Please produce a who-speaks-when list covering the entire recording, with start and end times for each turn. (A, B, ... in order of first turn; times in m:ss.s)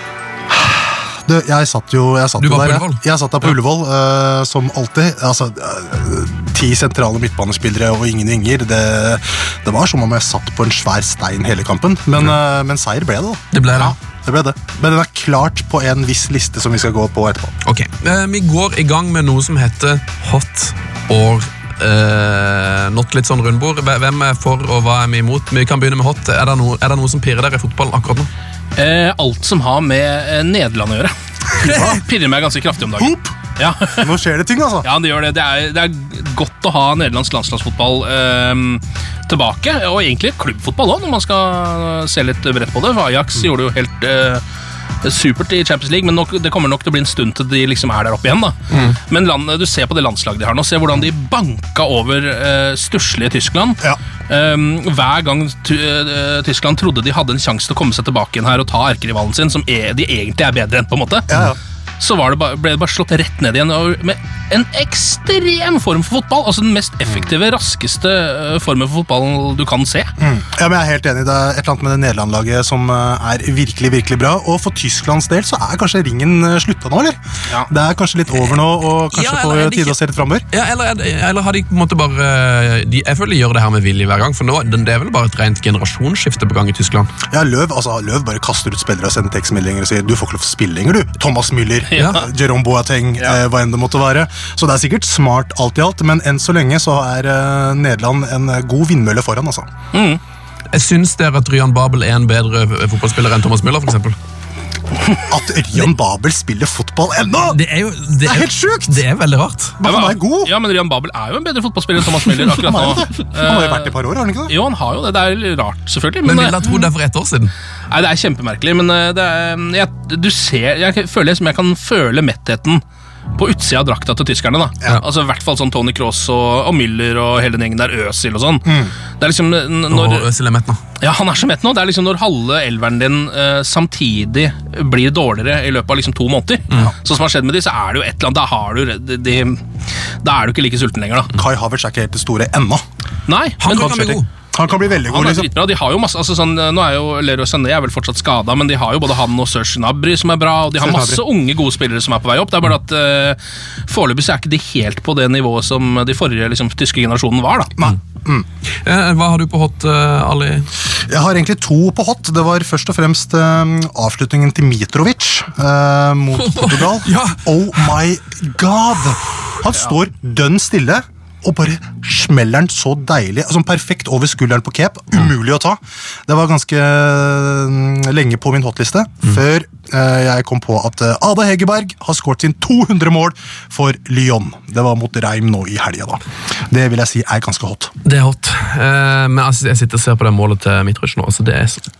0:00.6-0:17.5 A
0:02.4-0:03.5 B
0:13.5-0:14.0 B
0:17.6-0:28.3 B
0:28.7-0:31.1 C
0:31.6-0:31.9 B
0:31.6-0:32.0 A
0:31.7-0:34.1 C
0:33.0-0:33.3 A
0:33.9-0:34.8 A
0:34.8-0:44.4 C
0:45.0-1:01.3 C
1:01.3-1:01.6 A
1:02.0-1:10.1 C
1:10.2-1:20.4 A
1:19.1-1:20.0 B
1:20.5-1:27.1 B
1:27.3-1:39.7 A
1:31.9-1:32.2 C
1:32.0-1:32.2 B
1:39.9-1:40.2 C
1:40.7-1:44.2 B
1:45.1-1:47.6 A
1:47.4-1:49.8 B
1:48.2-1:49.0 A
1:49.8-1:50.5 A
1:49.8-1:56.7 C
1:52.6-1:54.5 A
1:56.2-1:57.5 B
1:57.9-2:02.8 C
2:03.3-2:10.3 C
2:08.6-2:08.9 A
2:09.9-2:10.8 B
2:11.0-2:19.6 C
2:20.2-2:21.4 C
2:21.3-2:22.8 A
2:23.3-2:23.9 C
2:23.6-2:24.3 B
2:23.7-2:25.5 A
2:25.1-2:37.8 C
2:30.8-2:31.2 A
2:37.8-2:38.4 A
2:38.8-2:40.7 B
2:41.1-3:07.9 A
2:46.3-2:47.6 B
3:08.0-3:11.9 B